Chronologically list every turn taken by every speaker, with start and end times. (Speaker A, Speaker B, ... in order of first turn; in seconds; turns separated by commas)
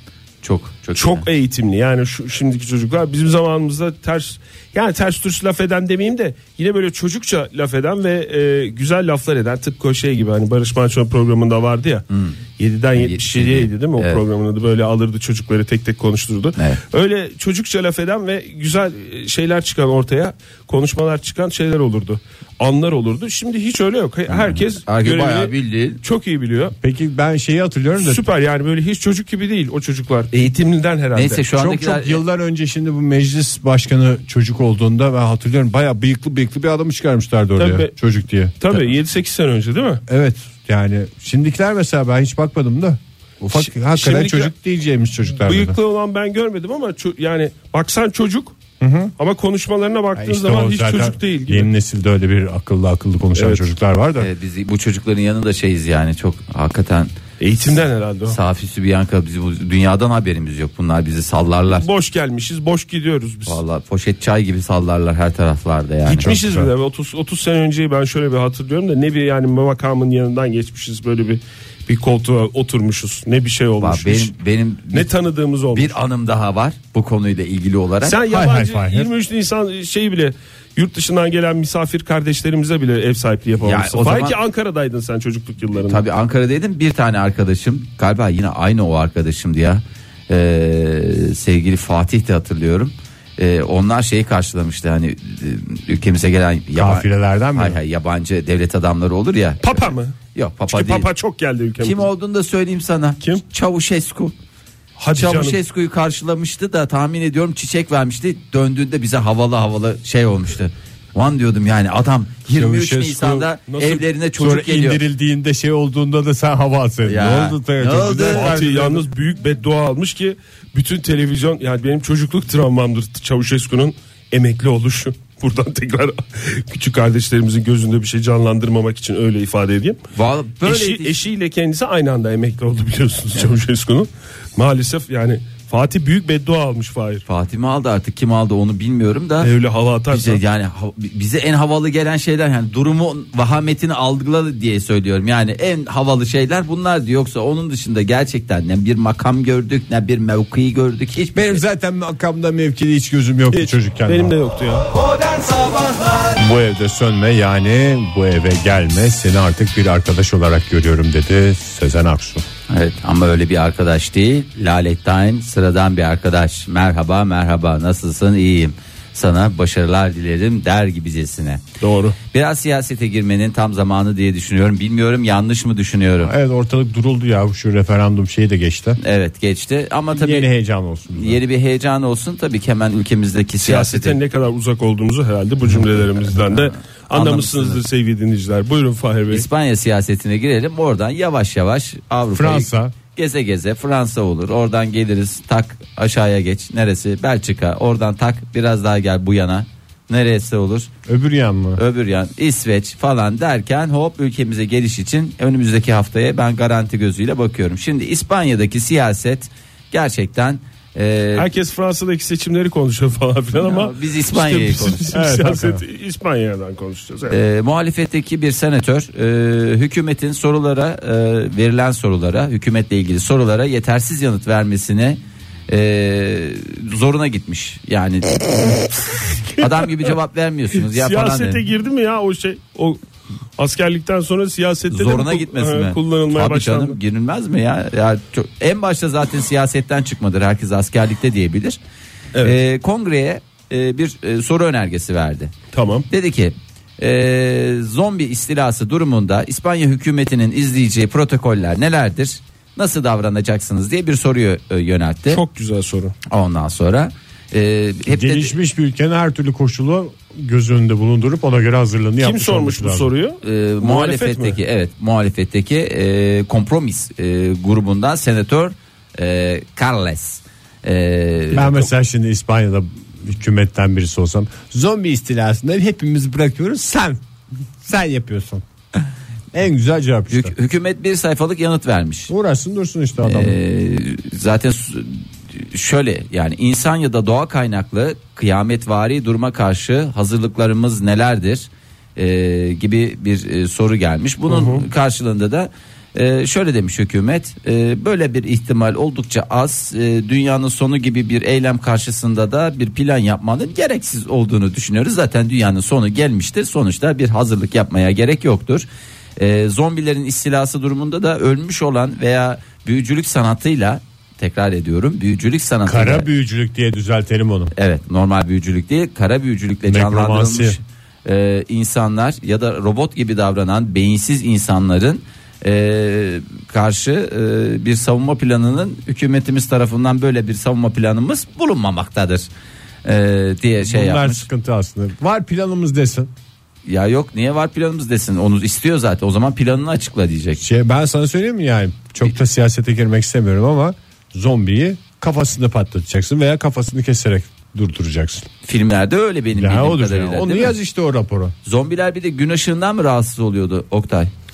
Speaker A: 0.4-1.3, Speaker B: 1.0-12.1, Speaker A: 12.1-12.4, Speaker B: 12.6-26.8, Speaker A: 13.0-14.2, Speaker A: 16.6-16.8, Speaker A: 24.3-26.0, Speaker C: 26.8-28.2, Speaker B: 28.0-31.4, Speaker A: 31.1-32.2, Speaker C: 31.5-38.5, Speaker B: 37.6-37.9, Speaker B: 38.6-40.0, Speaker C: 40.1-45.8, Speaker B: 43.5-44.5, Speaker B: 45.4-48.5, Speaker C: 48.8-49.1, Speaker B: 49.2-51.7, Speaker C: 50.2-54.3, Speaker B: 53.4-53.6, Speaker A: 54.2-57.2, Speaker B: 57.4-58.4, Speaker A: 58.3-61.9, Speaker B: 61.7-63.6, Speaker A: 63.5-66.3, Speaker B: 66.1-74.3, Speaker C: 66.2-66.7, Speaker A: 73.8-75.1, Speaker B: 74.9-76.0, Speaker A: 75.7-78.2, Speaker B: 78.0-86.0, Speaker C: 78.3-79.1, Speaker A: 83.6-84.4, Speaker A: 85.8-101.1, Speaker C: 96.8-97.8, Speaker B: 99.6-100.2, Speaker B: 100.7-102.1, Speaker A: 101.8-104.3, Speaker B: 105.0-105.6, Speaker A: 105.1-115.0, Speaker C: 112.5-113.5, Speaker B: 113.7-114.0, Speaker C: 114.4-119.1, Speaker A: 117.0-118.5, Speaker B: 118.3-130.0, Speaker A: 130.2-131.2, Speaker B: 130.6-137.2, Speaker A: 137.3-139.5, Speaker B: 139.4-140.4, Speaker A: 140.1-151.6, Speaker C: 151.3-154.3, Speaker B: 153.5-154.9, Speaker C: 156.4-162.4, Speaker A: 162.7-171.6, Speaker B: 171.8-172.2, Speaker A: 172.3-176.3, Speaker C: 176.2-179.0, Speaker A: 179.0-180.5, Speaker C: 180.1-181.4, Speaker A: 181.1-184.2, Speaker B: 183.6-189.5, Speaker A: 186.5-187.8, Speaker A: 189.3-200.9, Speaker C: 192.3-192.9, Speaker C: 201.1-201.8, Speaker A: 201.8-211.5, Speaker B: 211.4-217.4, Speaker A: 213.6-215.1, Speaker C: 215.1-215.8, Speaker A: 217.3-228.9, Speaker B: 229.5-230.1, Speaker A: 229.5-231.6, Speaker B: 230.7-233.0, Speaker B: 233.6-237.0, Speaker A: 234.9-241.8, Speaker A: 242.4-245.5, Speaker B: 245.7-246.1, Speaker A: 246.1-255.4, Speaker B: 255.3-256.1, Speaker A: 256.3-258.5, Speaker C: 258.1-263.1, Speaker B: 262.2-264.6, Speaker A: 263.4-271.9, Speaker C: 271.5-277.2, Speaker C: 277.8-278.6, Speaker C: 279.5-280.5, Speaker A: 280.3-282.3, Speaker C: 282.3-283.6, Speaker A: 283.2-316.3, Speaker B: 294.5-294.9, Speaker C: 315.9-317.7, Speaker A: 317.7-332.5, Speaker C: 319.9-320.8, Speaker A: 333.1-334.5, Speaker C: 333.8-336.3, Speaker A: 336.9-340.6, Speaker C: 340.6-348.5, Speaker A: 348.6-350.8, Speaker C: 349.5-351.5, Speaker A: 351.6-354.3